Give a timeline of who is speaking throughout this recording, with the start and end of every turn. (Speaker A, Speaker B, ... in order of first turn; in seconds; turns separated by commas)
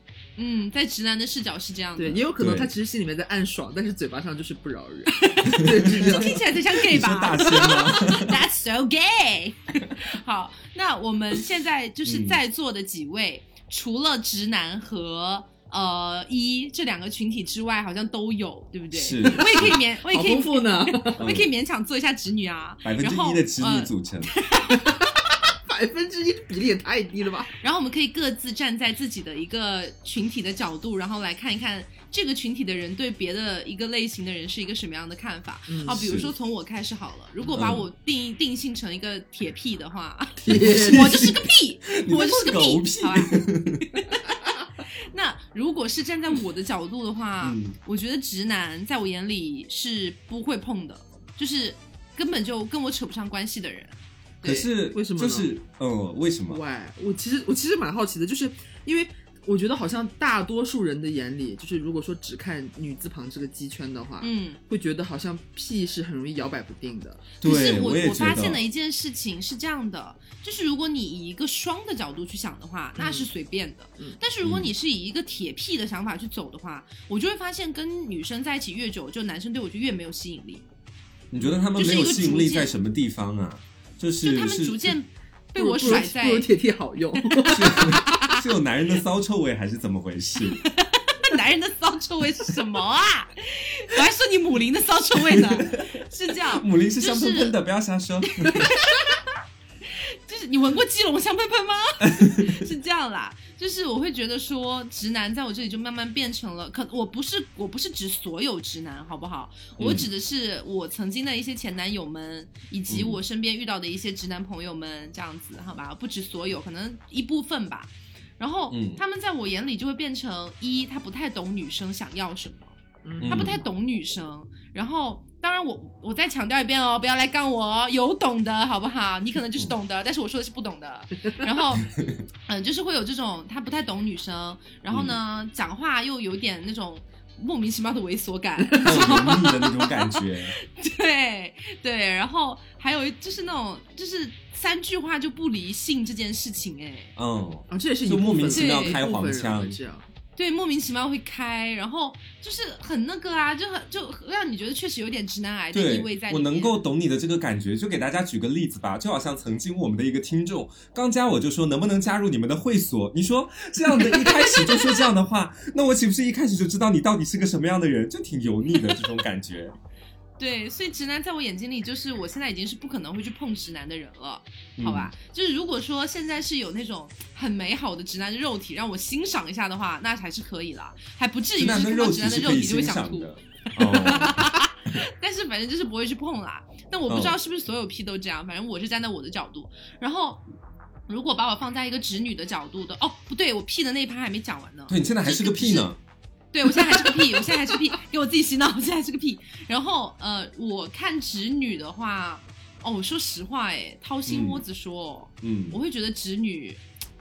Speaker A: 0.4-2.2, Speaker B: 2.0-6.4, Speaker C: 2.4-2.7, Speaker A: 5.1-24.9, Speaker C: 5.5-8.4, Speaker C: 12.1-12.4, Speaker C: 18.9-19.8, Speaker B: 19.3-21.2, Speaker C: 21.2-21.5, Speaker C: 22.8-24.3, Speaker B: 24.7-27.5, Speaker A: 27.6-44.3, Speaker B: 35.7-36.0, Speaker C: 35.9-36.3, Speaker C: 37.5-37.8, Speaker B: 40.4-41.2, Speaker C: 40.5-44.0, Speaker A: 45.1-54.7, Speaker C: 47.4-47.8, Speaker C: 54.4-56.6, Speaker B: 54.9-55.5, Speaker B: 56.5-67.3, Speaker A: 64.2-64.6, Speaker A: 67.4-80.6, Speaker C: 67.4-68.7, Speaker B: 73.0-73.3, Speaker C: 74.4-74.7, Speaker C: 81.3-84.9, Speaker A: 81.7-82.7, Speaker A: 84.2-86.5, Speaker B: 85.5-88.3, Speaker C: 87.5-90.6, Speaker A: 87.7-88.4, Speaker A: 90.6-97.5, Speaker C: 95.2-98.7, Speaker A: 98.4-99.2, Speaker A: 99.9-122.7, Speaker C: 102.0-102.5, Speaker C: 109.8-110.1, Speaker C: 112.9-113.2, Speaker C: 118.7-119.0, Speaker B: 123.0-123.6, Speaker C: 123.2-123.6, Speaker A: 123.3-131.9, Speaker C: 131.8-132.2, Speaker A: 132.5-147.1, Speaker C: 134.9-135.2, Speaker B: 138.6-139.3, Speaker C: 138.8-140.5, Speaker C: 147.2-149.8, Speaker B: 147.7-150.1, Speaker A: 148.5-149.0, Speaker A: 150.4-156.7, Speaker C: 155.7-169.7, Speaker A: 164.0-165.0, Speaker A: 170.4-190.4, Speaker C: 174.8-175.1, Speaker C: 181.6-184.5, Speaker C: 187.1-187.4, Speaker A: 191.1-195.9, Speaker C: 194.9-196.0, Speaker A: 196.5-206.8, Speaker C: 204.3-204.6, Speaker C: 205.4-205.8